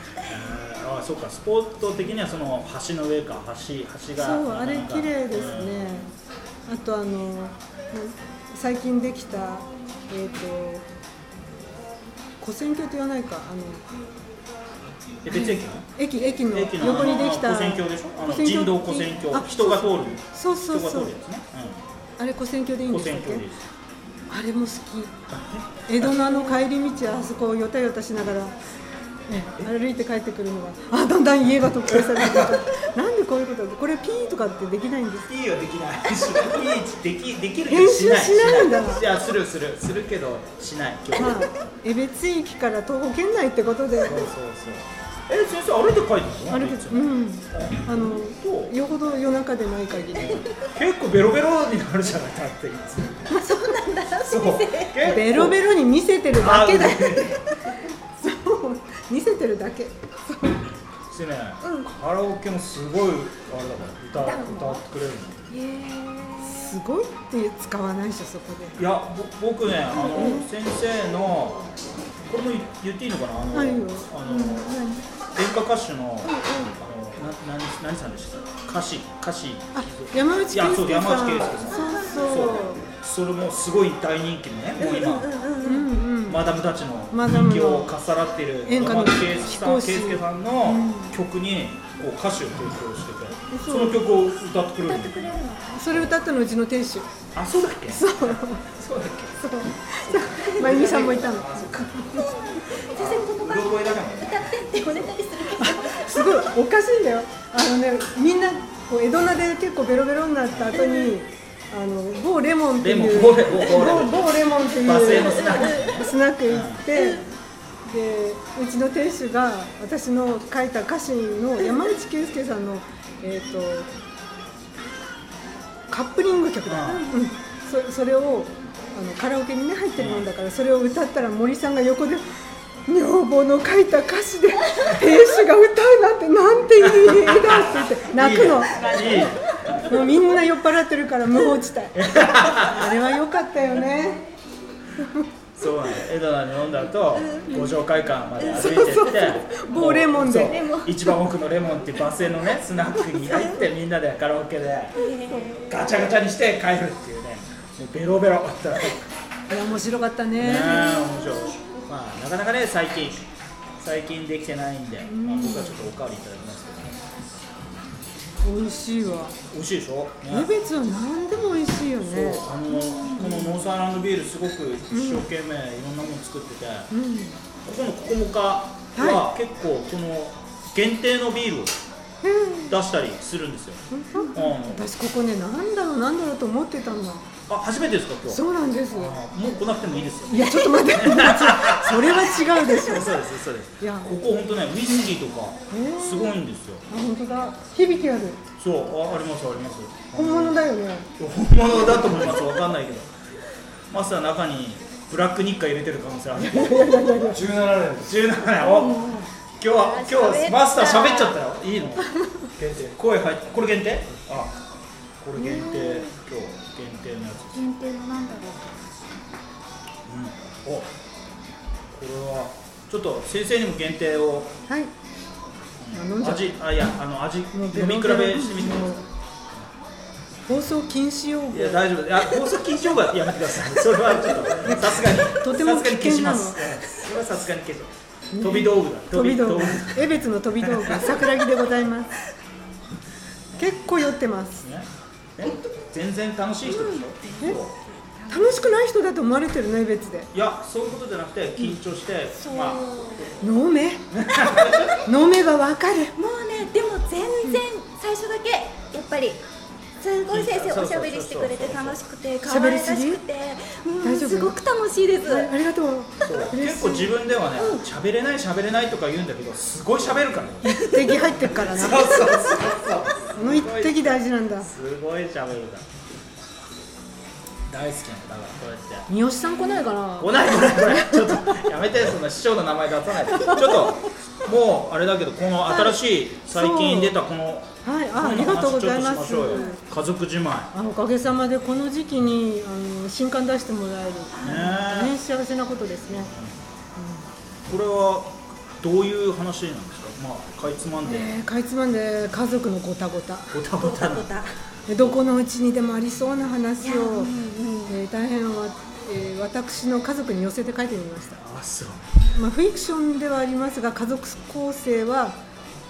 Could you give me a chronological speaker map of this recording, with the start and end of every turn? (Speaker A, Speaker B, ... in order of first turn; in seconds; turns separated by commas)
Speaker A: 0.2-6.0, Speaker B: 4.2-6.1, Speaker B: 6.7-10.8, Speaker B: 12.4-13.8, Speaker A: 15.2-15.9, Speaker B: 15.3-21.1, Speaker A: 16.5-21.8, Speaker B: 22.2-23.5, Speaker A: 22.9-23.6, Speaker B: 24.3-25.1, Speaker A: 25.3-26.2, Speaker B: 25.9-28.6, Speaker B: 29.3-35.3, Speaker A: 31.9-32.6, Speaker A: 35.3-41.5, Speaker B: 37.7-39.0, Speaker B: 41.1-44.2, Speaker A: 44.0-48.7, Speaker B: 46.5-50.4, Speaker A: 50.1-53.3, Speaker B: 53.3-53.7, Speaker C: 53.3-55.1, Speaker A: 54.3-55.6, Speaker B: 55.0-57.4, Speaker A: 56.4-57.4, Speaker B: 58.2-60.6, Speaker A: 61.1-65.4, Speaker C: 61.6-61.9, Speaker C: 64.2-64.8, Speaker C: 65.5-66.8, Speaker B: 66.4-68.8, Speaker A: 68.8-71.6, Speaker B: 69.9-70.5, Speaker C: 70.0-70.4, Speaker A: 72.3-85.3, Speaker B: 73.5-75.0, Speaker C: 76.2-76.7, Speaker B: 79.7-82.8, Speaker C: 81.7-82.2, Speaker C: 84.8-85.9, Speaker B: 85.6-86.5, Speaker A: 86.2-95.4, Speaker B: 87.1-87.9, Speaker B: 88.6-91.2, Speaker B: 93.5-94.0, Speaker C: 94.8-95.9, Speaker B: 95.7-97.1, Speaker A: 97.3-99.4, Speaker B: 97.9-98.7, Speaker B: 99.4-102.3, Speaker A: 100.0-102.2, Speaker C: 102.5-106.2, Speaker A: 102.8-105.1, Speaker B: 105.6-117.2, Speaker A: 110.5-110.8, Speaker C: 110.8-111.1, Speaker A: 112.8-116.8, Speaker C: 115.2-115.9, Speaker C: 116.9-117.2, Speaker B: 117.8-123.9, Speaker B: 125.9-132.2, Speaker A: 126.7-127.0, Speaker C: 126.8-127.2, Speaker A: 130.0-130.3, Speaker B: 132.9-144.2, Speaker A: 136.8-140.0, Speaker A: 141.9-142.9, Speaker B: 145.0-145.3, Speaker A: 145.5-155.1, Speaker C: 147.2-147.8, Speaker C: 148.4-149.1, Speaker B: 148.5-150.6, Speaker C: 150.3-151.1, Speaker C: 154.9-155.8, Speaker A: 155.7-159.0, Speaker B: 159.5-161.1, Speaker A: 160.4-163.3, Speaker C: 160.6-161.7, Speaker A: 163.8-167.0, Speaker B: 165.0-165.9, Speaker B: 168.4-169.4, Speaker A: 169.5-170.5, Speaker B: 170.3-172.5, Speaker A: 172.0-176.9, Speaker C: 172.7-173.4, Speaker B: 173.2-173.5, Speaker B: 174.9-175.3, Speaker B: 176.9-177.4, Speaker A: 177.6-181.7, Speaker B: 178.9-179.3, Speaker B: 182.2-182.7, Speaker A: 182.7-184.9, Speaker B: 183.9-187.3, Speaker A: 187.5-196.8, Speaker B: 188.3-189.2, Speaker B: 190.3-193.2, Speaker B: 193.8-194.1, Speaker B: 195.7-198.4, Speaker A: 198.6-200.6, Speaker B: 200.1-201.1, Speaker A: 201.2-203.1, Speaker C: 201.9-202.6, Speaker A: 203.9-209.1, Speaker B: 206.4-207.5, Speaker C: 208.6-211.4, Speaker A: 209.6-214.6, Speaker A: 215.2-217.7, Speaker C: 215.5-216.1, Speaker C: 217.5-218.8, Speaker A: 220.1-220.9, Speaker A: 221.9-224.5, Speaker A: 225.8-229.0, Speaker B: 225.9-226.6, Speaker B: 227.5-229.0, Speaker B: 230.5-231.9, Speaker A: 231.5-241.3, Speaker B: 234.6-236.8, Speaker B: 238.3-242.1, Speaker B: 243.6-244.7, Speaker A: 244.6-247.7, Speaker C: 246.7-248.8, Speaker B: 248.3-250.3, Speaker A: 250.3-252.8, Speaker C: 252.4-253.3, Speaker B: 253.4-254.1, Speaker A: 254.1-254.9, Speaker B: 255.0-256.1, Speaker C: 256.1-259.4, Speaker C: 260.0-265.5, Speaker A: 260.3-262.0, Speaker B: 262.4-263.2, Speaker B: 264.0-264.6, Speaker B: 265.2-267.1, Speaker A: 266.2-275.9, Speaker B: 270.6-272.1, Speaker B: 273.3-274.7, Speaker A: 277.7-279.1, Speaker B: 279.1-281.7, Speaker C: 279.5-279.8, Speaker A: 280.2-290.7, Speaker B: 283.4-284.1, Speaker B: 285.6-287.1, Speaker B: 287.8-289.8, Speaker C: 289.5-289.8, Speaker B: 290.7-296.3, Speaker C: 294.3-294.7, Speaker A: 294.4-295.2, Speaker A: 296.1-296.5, Speaker B: 297.0-297.3, Speaker A: 297.7-301.3, Speaker B: 301.0-303.6, Speaker A: 303.5-304.3, Speaker C: 303.8-304.5, Speaker B: 304.9-307.3, Speaker C: 306.8-307.9, Speaker B: 307.9-311.4, Speaker A: 311.4-312.2, Speaker B: 312.3-315.4